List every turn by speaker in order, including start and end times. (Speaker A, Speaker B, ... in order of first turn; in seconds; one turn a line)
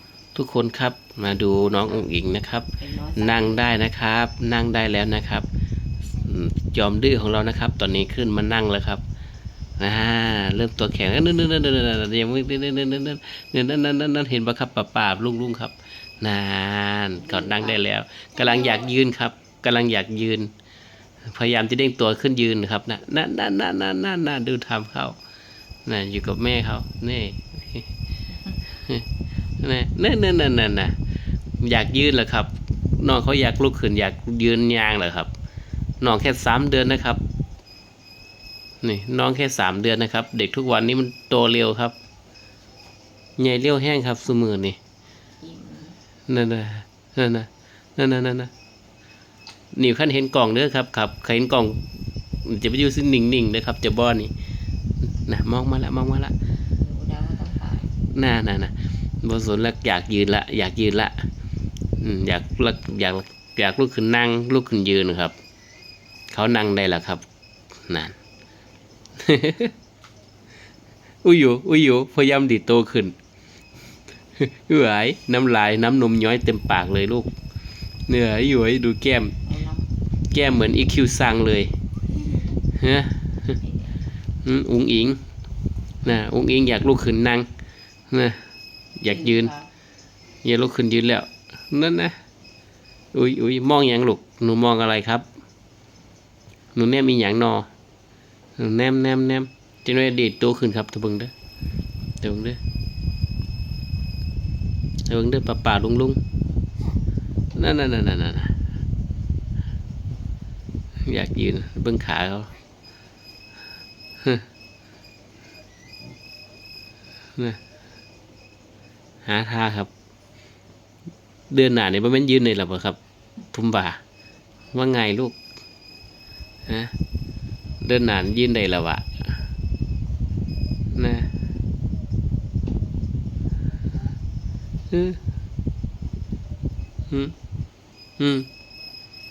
Speaker A: 0.3-5.5
Speaker B: 2.8-3.8
Speaker A: 6.1-9.0
Speaker A: 9.8-20.5
Speaker B: 17.1-17.8
Speaker A: 21.2-25.2
Speaker A: 25.8-27.9
Speaker A: 28.7-29.1
Speaker A: 29.6-30.9
Speaker A: 31.6-35.3
Speaker A: 36.0-37.2
Speaker A: 38.8-41.9
Speaker A: 43.4-44.8
Speaker B: 45.4-46.0
Speaker A: 46.3-48.5
Speaker A: 49.7-51.8
Speaker A: 52.4-54.3
Speaker A: 55.0-56.3
Speaker B: 56.7-57.9
Speaker A: 58.0-61.3
Speaker A: 62.0-65.3
Speaker A: 66.3-67.2
Speaker A: 67.9-68.2
Speaker A: 69.2-69.7
Speaker A: 71.2-73.1
Speaker A: 74.4-77.3
Speaker A: 78.1-79.4
Speaker B: 79.4-79.9
Speaker A: 80.3-81.7
Speaker A: 82.7-83.5
Speaker B: 83.6-84.0
Speaker A: 84.4-85.2
Speaker A: 86.0-87.5
Speaker A: 88.1-88.4
Speaker A: 89.0-89.5
Speaker B: 89.0-89.7
Speaker A: 90.4-92.2
Speaker A: 93.1-95.2
Speaker A: 96.7-97.7
Speaker A: 98.6-101.3
Speaker A: 102.2-102.6
Speaker A: 105.1-106.2
Speaker A: 107.5-108.5
Speaker A: 111.0-112.5
Speaker A: 119.2-119.9
Speaker A: 121.5-123.0
Speaker A: 123.5-124.0
Speaker A: 124.7-125.4
Speaker A: 126.7-126.9
Speaker A: 127.8-129.3
Speaker A: 130.9-131.3
Speaker A: 134.9-135.2
Speaker A: 137.1-137.3
Speaker A: 138.2-138.5